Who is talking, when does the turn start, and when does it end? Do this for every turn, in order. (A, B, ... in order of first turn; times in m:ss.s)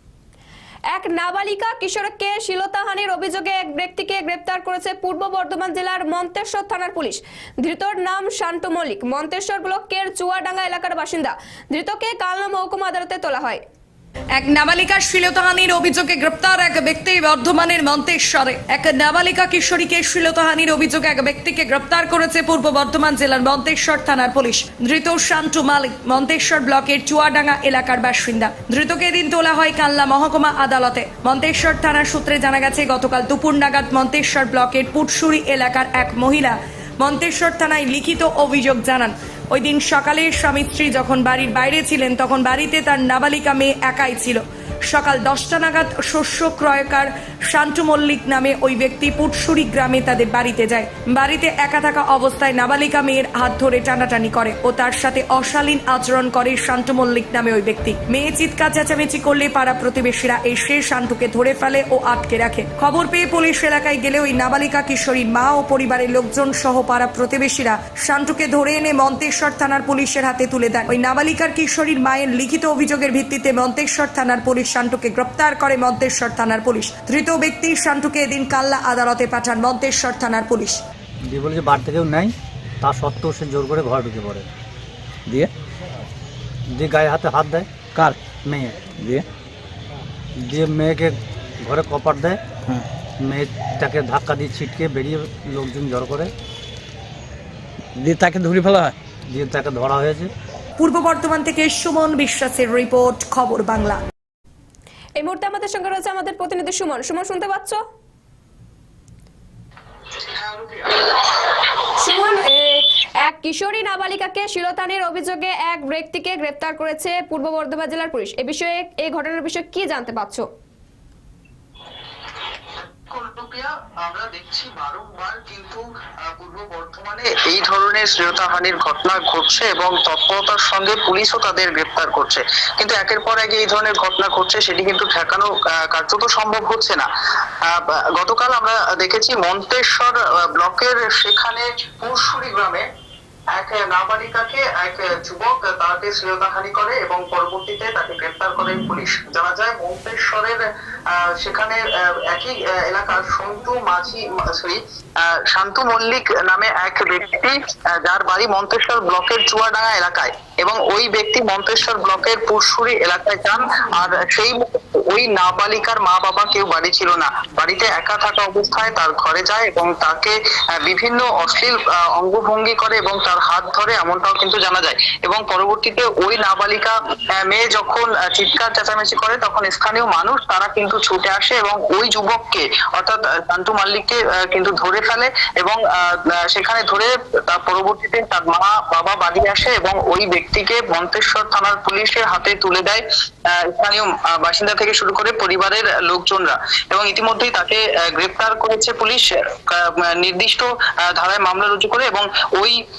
0:00.9-0:13.6 A
0:14.4-1:20.8 B
1:21.3-1:24.5 C
1:26.7-1:27.7 C
1:27.8-1:29.2 D
1:28.4-1:28.8 C
1:30.4-1:32.4 C
1:33.3-1:36.3 C
1:38.0-1:39.0 D
1:39.3-1:40.3 C
1:40.8-1:44.0 B
1:45.2-1:47.8 A
1:50.2-1:51.1 E
1:52.0-2:00.5 A
2:02.8-2:17.1 E
2:17.6-2:22.8 E
2:23.5-2:30.6 E
2:31.2-3:22.8 E